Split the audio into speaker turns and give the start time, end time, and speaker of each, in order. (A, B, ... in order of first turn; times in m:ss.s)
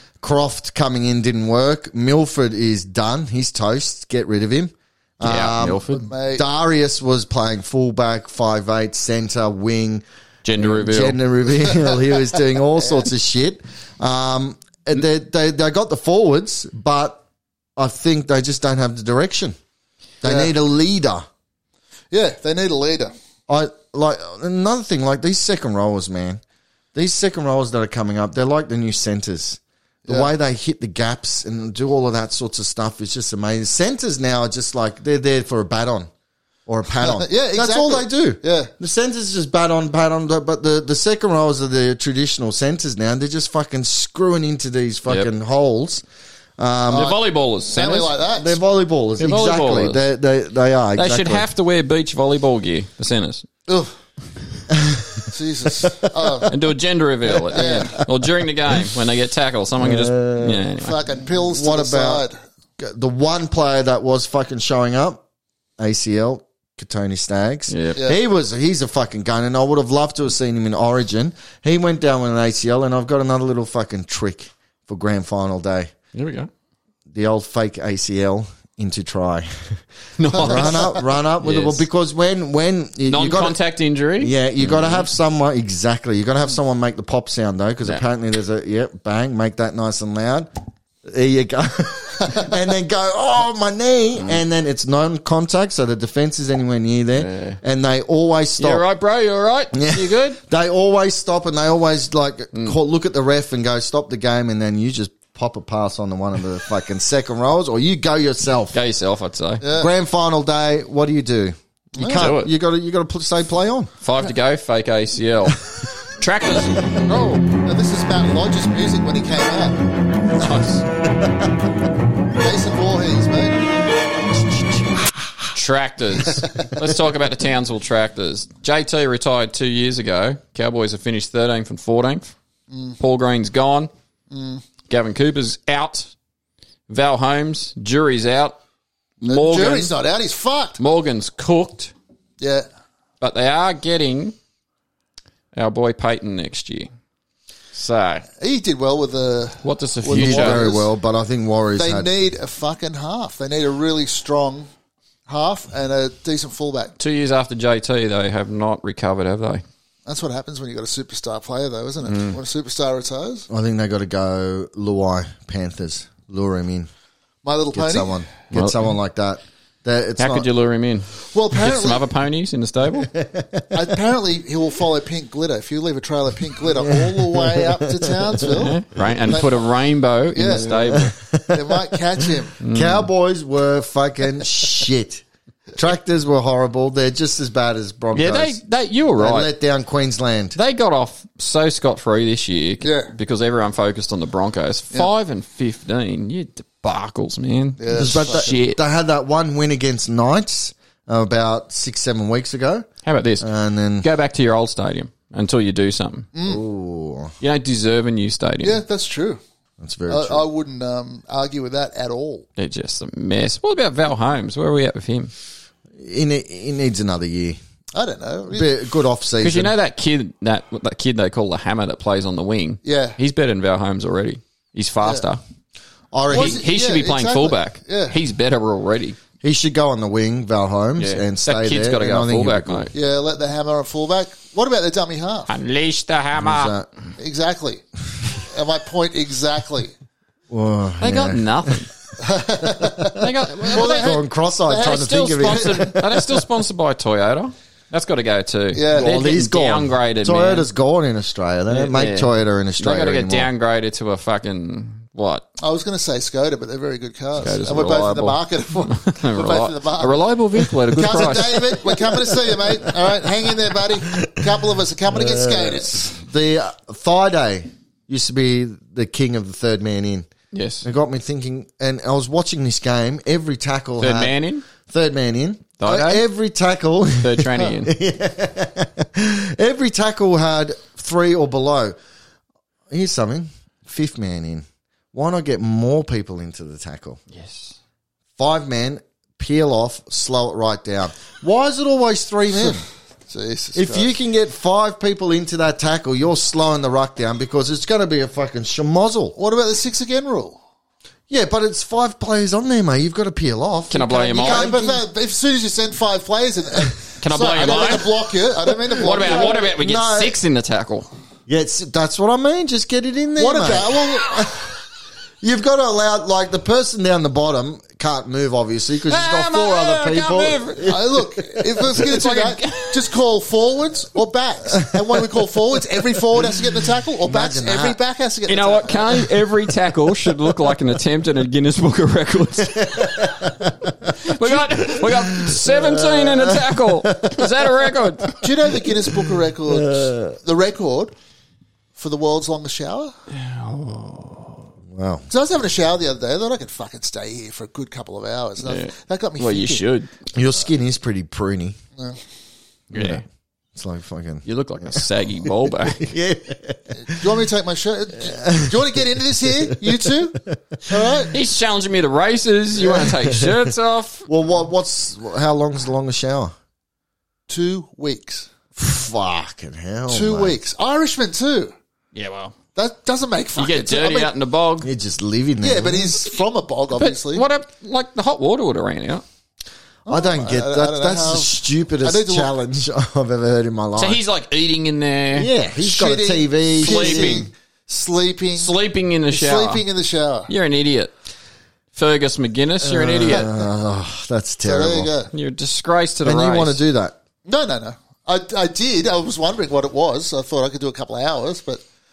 0:00.2-0:10.0 A
0:05.2-0:06.1 B
0:05.9-0:06.4 C
0:10.4-0:11.2 B
0:10.6-0:17.2 A
0:17.8-0:19.6 A
0:20.2-0:21.3 A
0:20.2-0:20.5 C
0:22.1-0:23.1 C
0:23.5-0:26.4 A
0:26.9-0:36.1 A
0:36.7-0:46.0 A
0:37.0-0:38.7 C
0:46.6-0:47.2 A
0:46.9-0:48.6 C
0:46.9-0:48.2 B
0:48.3-0:51.5 A
0:49.2-0:50.0 B
0:51.0-0:53.5 B
0:53.7-0:53.9 C
0:54.7-0:55.3 A
0:55.3-0:56.5 C
0:56.5-1:01.0 B
0:57.3-0:58.1 A
0:57.5-0:58.0 C
0:59.8-1:00.7 A
1:00.8-1:02.4 C
1:01.4-1:02.2 A
1:02.8-1:05.2 A
1:05.8-1:15.9 A
1:07.7-1:08.0 B
1:16.1-1:16.5 B
1:17.1-1:23.6 A
1:20.2-1:21.9 B
1:20.3-1:20.8 C
1:23.1-1:25.1 B
1:24.2-1:30.5 A
1:31.0-1:38.8 A
1:37.2-1:37.6 B
1:38.6-1:40.4 B
1:39.7-1:48.8 A
1:48.7-1:49.6 B
1:49.6-1:49.9 C
1:49.8-1:53.9 A
1:52.0-1:52.3 C
1:52.0-1:52.5 B
1:54.0-1:55.7 B
1:56.2-1:56.9 B
1:57.1-1:59.8 C
2:00.4-2:00.8 B
2:02.4-2:03.6 C
2:05.5-2:12.3 B
2:12.7-2:13.0 C
2:13.0-2:13.9 B
2:14.3-2:14.6 C
2:14.9-2:16.1 B
2:16.9-2:18.6 B
2:19.2-2:19.9 B
2:19.2-2:20.8 C
2:20.8-2:21.9 B
2:22.4-2:22.7 C
2:23.2-2:24.4 B
2:25.5-2:26.9 B
2:27.7-2:28.3 B
2:28.4-2:30.9 C
2:29.6-2:30.7 B
2:30.1-2:32.1 A
2:31.8-2:34.7 C
2:35.3-2:36.9 C
2:37.0-2:39.6 B
2:40.1-2:43.5 C
2:42.0-2:42.4 B
2:43.5-2:46.9 A
2:47.4-2:48.2 C
2:47.7-2:50.5 A
2:48.5-2:48.9 B
2:50.2-2:53.1 B
2:51.3-2:52.1 C
2:53.0-2:53.8 A
2:53.7-2:59.7 C
2:56.8-2:58.6 A
2:58.5-3:01.1 B
3:00.3-3:02.5 C
3:00.5-3:05.2 A
3:02.6-3:03.1 B
3:05.8-3:08.6 A
3:08.1-3:09.5 B
3:09.2-3:10.6 A
3:10.6-3:18.8 B
3:12.8-3:13.1 C
3:17.8-3:18.5 C
3:17.9-3:22.9 A
3:23.0-3:23.5 B
3:23.4-3:24.1 A
3:24.0-3:26.3 B
3:26.4-3:26.6 C
3:26.4-3:27.3 A
3:27.4-3:28.8 B
3:28.6-3:29.4 C
3:29.8-3:30.5 A
3:30.1-3:32.5 C
3:32.6-3:35.3 B
3:36.0-3:37.6 A
3:37.9-3:38.7 C
3:38.5-3:39.7 A
3:39.4-3:45.4 B
3:42.8-3:43.2 C
3:46.1-3:46.6 A
3:46.3-3:48.2 C
3:46.3-3:49.2 B
3:49.4-3:52.9 A
3:51.0-3:52.9 B
3:52.9-3:55.5 C
3:55.5-3:56.8 B
3:56.4-3:56.9 A
3:57.2-3:57.8 C
3:58.5-3:59.9 C
4:00.5-4:01.9 A
4:01.0-4:01.9 B
4:02.2-4:06.0 C
4:03.2-4:04.2 B
4:03.7-4:06.3 A
4:04.7-4:10.7 B
4:08.7-4:09.2 C
4:08.9-4:13.5 A
4:11.7-4:15.5 B
4:15.6-4:20.2 C
4:17.4-4:21.8 B
4:20.9-4:26.1 C
4:21.1-4:21.4 A
4:25.1-4:30.3 A
4:30.5-4:30.8 B
4:30.8-4:42.0 A
4:34.0-4:34.6 B
4:35.8-4:36.2 B
4:37.2-4:37.9 B
4:42.9-4:47.2 A
4:47.3-4:47.8 B
4:48.4-4:52.8 A
4:52.6-4:54.1 C
4:53.8-4:59.4 A
4:59.4-5:00.6 C
5:01.3-5:05.1 A
5:03.9-5:04.7 B
5:04.1-5:09.7 C
5:07.2-5:08.2 B
5:09.0-5:11.1 B
5:09.2-5:10.4 A
5:11.5-5:14.7 A
5:13.4-5:14.5 C
5:15.4-5:21.3 A
5:19.1-5:21.0 B
5:20.8-5:29.2 C
5:21.9-5:23.0 B
5:27.2-5:28.0 A
5:28.5-5:33.5 B
5:32.8-5:38.3 A
5:34.2-5:38.4 B
5:38.4-5:41.1 C
5:39.7-5:40.4 A
5:42.0-5:43.1 C
5:43.3-5:44.6 B
5:44.9-5:45.2 A
5:45.3-5:49.9 C
5:48.6-5:50.1 B
5:50.3-5:51.8 A
5:52.9-5:53.2 B
5:52.9-5:53.2 A
5:53.8-5:57.2 A
5:54.5-5:56.1 B
5:56.9-6:01.3 C
5:58.2-6:01.3 A
6:01.3-6:04.3 B
6:02.8-6:03.7 A
6:04.3-6:06.5 A
6:07.5-6:08.5 C
6:08.8-6:10.6 A
6:10.1-6:11.8 C
6:12.1-6:12.6 B
6:12.8-6:14.3 C
6:13.6-6:14.9 B
6:14.8-6:16.2 A
6:15.6-6:17.5 C
6:17.0-6:19.2 B
6:20.1-6:22.5 C
6:20.1-6:24.2 A
6:24.0-6:25.5 B
6:25.3-6:27.5 A
6:25.8-6:28.7 C
6:26.7-6:27.5 B
6:28.6-6:29.8 B
6:29.3-6:30.5 C
6:30.5-6:31.1 B
6:31.9-6:33.5 B
6:32.8-6:35.1 A
6:34.6-6:35.3 C
6:35.3-6:36.8 B
6:36.2-6:37.2 A
6:37.4-6:41.8 C